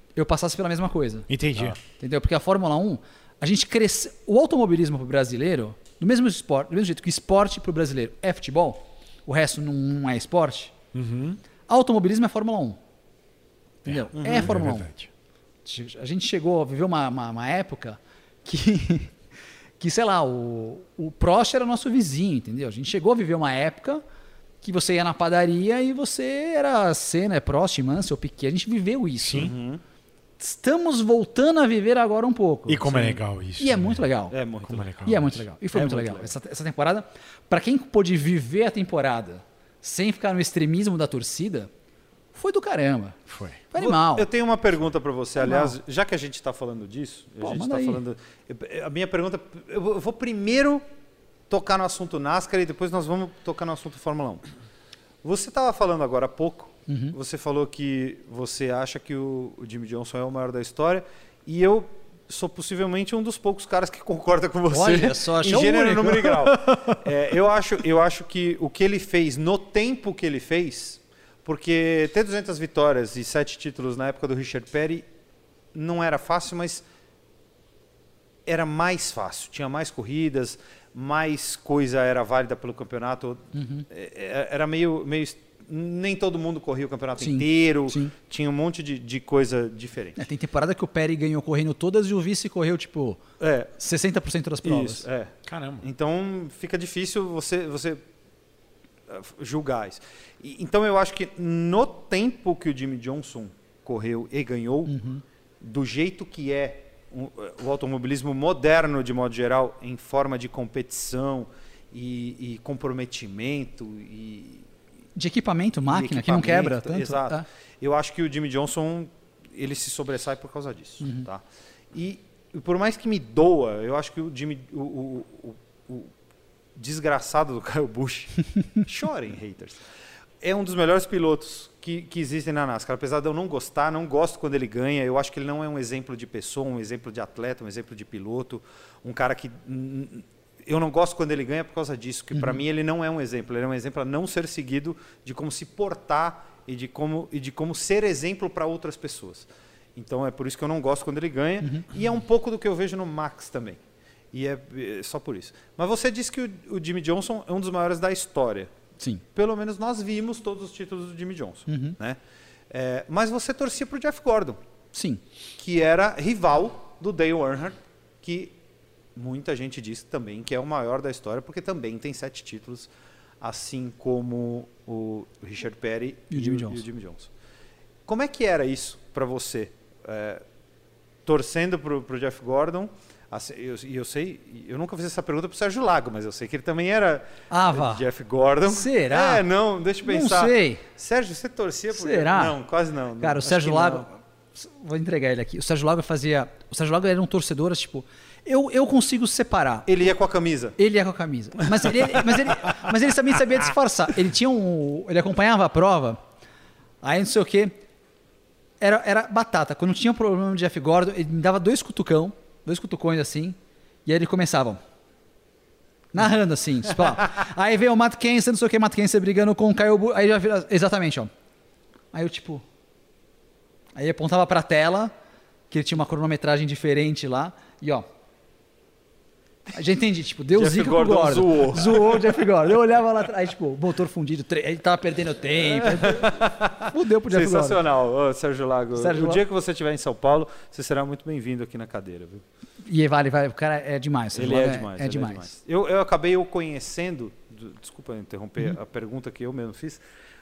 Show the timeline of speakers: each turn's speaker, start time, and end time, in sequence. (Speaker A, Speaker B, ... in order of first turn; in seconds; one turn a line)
Speaker A: 0.2-1.3
Speaker B: 1.3-1.8
Speaker A: 1.8-10.7
Speaker B: 10.9-11.4
Speaker A: 11.7-12.8
Speaker A: 13.8-14.9
Speaker B: 13.8-15.1
Speaker C: 14.2-14.5
Speaker A: 15.7-19.1
Speaker A: 19.8-24.0
Speaker A: 24.6-29.5
Speaker B: 29.2-29.5
Speaker C: 29.3-29.8
Speaker A: 30.4-34.4
Speaker B: 32.7-34.0
Speaker C: 32.9-33.2
Speaker C: 34.3-35.0
Speaker B: 34.6-35.4
Speaker A: 35.0-41.7
Speaker C: 35.7-36.3
Speaker A: 42.3-43.2
Speaker B: 43.3-43.6
Speaker A: 43.7-44.3
Speaker C: 43.8-50.8
Speaker A: 45.4-45.8
Speaker A: 47.4-48.0
Speaker C: 51.5-54.4
Speaker C: 55.2-75.0
Speaker A: 56.9-57.1
Speaker A: 64.7-67.0
Speaker C: 75.7-76.8
Speaker C: 78.5-90.2
Speaker A: 83.5-83.9
Speaker A: 87.2-88.1
Speaker A: 90.2-93.2
Speaker C: 93.4-93.7
Speaker A: 93.8-95.1
Speaker C: 94.6-98.0
Speaker B: 95.5-95.9
Speaker C: 99.1-105.0
Speaker A: 104.9-105.2
Speaker C: 105.6-114.7
Speaker A: 115.2-117.5
Speaker C: 115.9-121.4
Speaker C: 121.9-126.1
Speaker C: 126.8-129.8
Speaker C: 130.4-153.8
Speaker A: 142.3-142.6
Speaker A: 151.6-151.9
Speaker C: 154.3-158.7
Speaker C: 159.3-162.2
Speaker A: 161.7-162.0
Speaker C: 162.7-164.6
Speaker A: 164.9-165.2
Speaker C: 165.6-168.5
Speaker C: 169.2-172.9
Speaker C: 173.4-177.3
Speaker A: 176.3-176.8
Speaker C: 178.1-180.4
Speaker C: 181.3-194.1
Speaker A: 187.5-188.0
Speaker A: 188.7-189.4
Speaker A: 190.0-190.8
Speaker A: 191.9-192.6
Speaker A: 193.2-200.1
Speaker C: 199.9-200.8
Speaker A: 200.8-206.2
Speaker A: 207.0-207.8
Speaker A: 208.8-214.8
Speaker A: 216.1-221.3
Speaker A: 222.1-222.6
Speaker A: 223.9-225.1
Speaker A: 225.7-228.1
Speaker A: 229.7-237.8
Speaker C: 230.5-232.4
Speaker C: 235.6-242.4
Speaker A: 239.0-239.4
Speaker A: 242.8-245.5
Speaker C: 244.3-250.0